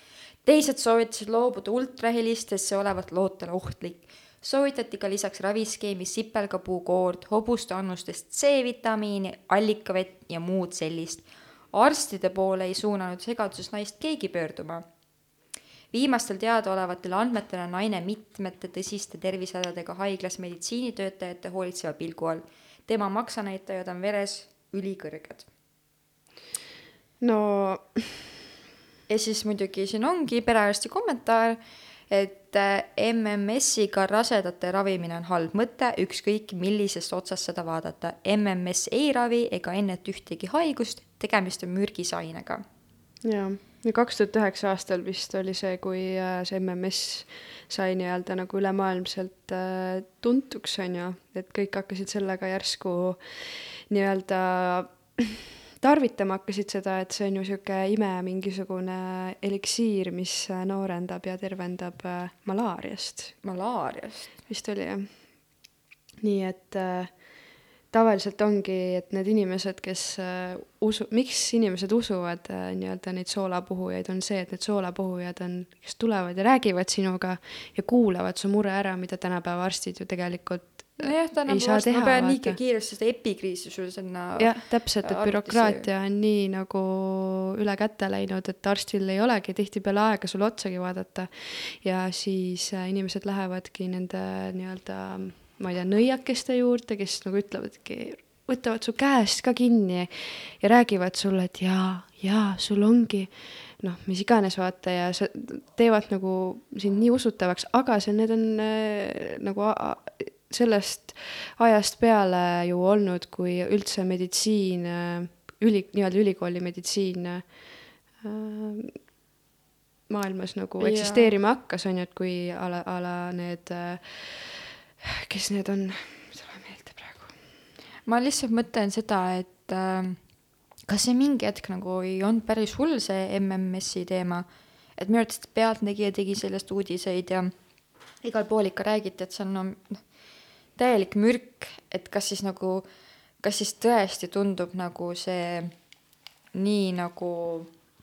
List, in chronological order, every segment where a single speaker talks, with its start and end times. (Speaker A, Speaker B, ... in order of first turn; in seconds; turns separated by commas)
Speaker A: 0.4-14.8, Speaker A: 15.9-25.5, Speaker B: 27.2-28.4, Speaker A: 29.1-42.6, Speaker B: 43.2-63.4, Speaker A: 63.4-64.3, Speaker B: 64.5-65.5, Speaker B: 66.2-82.6, Speaker A: 81.0-85.9, Speaker B: 84.4-119.0, Speaker B: 120.1-127.4, Speaker A: 120.8-121.3, Speaker A: 128.1-130.2, Speaker A: 130.8-137.6, Speaker A: 138.2-140.2, Speaker A: 140.8-142.9, Speaker A: 143.4-145.8, Speaker A: 146.5-147.7